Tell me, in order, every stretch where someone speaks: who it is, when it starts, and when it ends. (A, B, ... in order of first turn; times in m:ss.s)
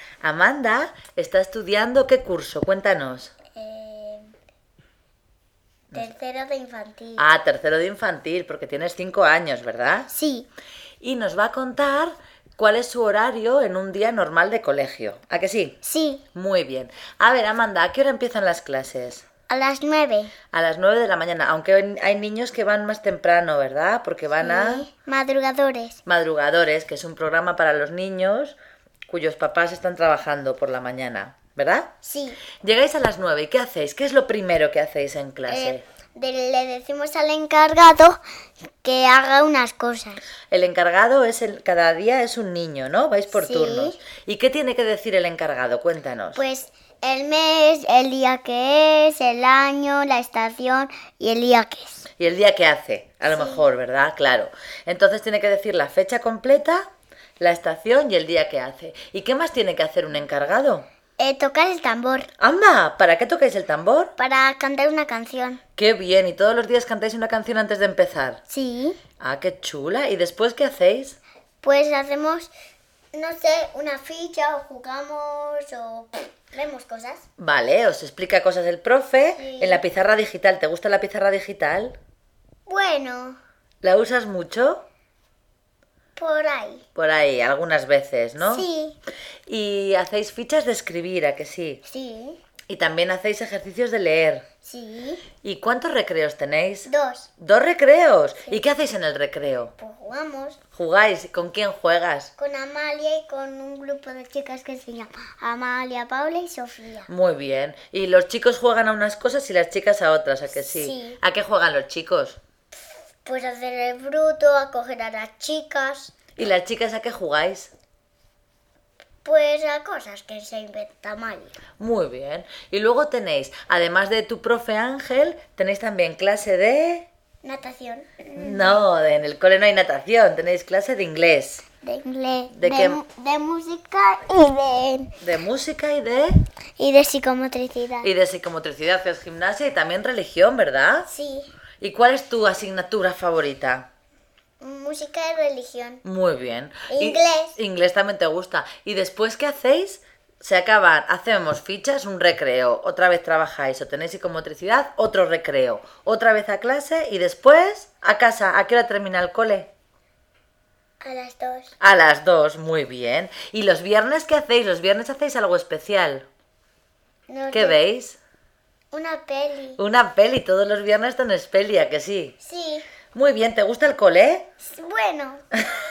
0:00.2-0:03.3 A
0:03.5-0:04.3 B
0:05.9-0:07.2 B
0:07.2-0:10.1 A
0:10.1-0:10.5 B
0:11.0-0:15.8 A
0:15.8-0:16.2 B
0:16.3-0:19.2 A
0:19.5-0:20.3 B
0:20.5-0:24.9 A
0:24.4-0:26.0 B
0:26.0-0:28.6 A
0:29.1-0:31.9 A
0:32.0-0:32.4 B
0:32.6-0:35.8 A
0:35.5-0:38.2 B
0:38.8-0:40.2 B
0:40.5-0:46.4 A
0:43.3-0:44.0 B
0:46.4-0:52.0 B
0:52.2-0:56.9 A
0:53.3-0:53.7 B
0:57.4-1:00.8 A
1:01.2-1:02.3 B
1:02.4-1:04.1 A
1:04.2-1:05.6 B
1:05.8-1:08.4 A
1:08.5-1:09.0 B
1:09.2-1:11.2 A
1:11.6-1:12.5 B
1:13.1-1:17.2 B
1:17.4-1:22.0 A
1:19.4-1:19.8 B
1:22.7-1:23.4 B
1:23.8-1:24.8 A
1:26.2-1:26.8 B
1:26.9-1:28.7 A
1:28.4-1:29.0 B
1:29.5-1:31.8 A
1:31.8-1:32.4 B
1:32.7-1:34.4 A
1:34.6-1:35.2 B
1:35.4-1:39.7 A
1:36.8-1:37.3 B
1:39.8-1:40.6 B
1:40.7-1:42.3 A
1:42.4-1:47.1 B
1:47.1-1:52.4 A
1:50.7-1:51.2 B
1:53.2-1:56.1 B
1:56.4-1:57.7 A
1:59.2-2:01.6 B
2:01.8-2:07.1 A
2:07.4-2:08.8 B
2:08.4-2:11.6 A
2:11.8-2:15.1 B
2:12.5-2:13.0 A
2:15.2-2:16.4 A
2:16.8-2:18.1 B
2:18.0-2:21.1 A
2:21.1-2:21.5 B
2:21.8-2:23.9 A
2:24.6-2:26.0 B
2:26.0-2:39.7 A
2:26.9-2:27.6 B
2:41.0-2:41.7 B
2:41.8-2:46.3 A
2:47.3-2:47.8 B
2:47.5-2:48.2 A
2:48.9-2:49.8 B
2:49.8-2:52.4 A
2:52.4-2:52.8 B
2:53.1-2:54.5 A
2:54.6-2:55.4 B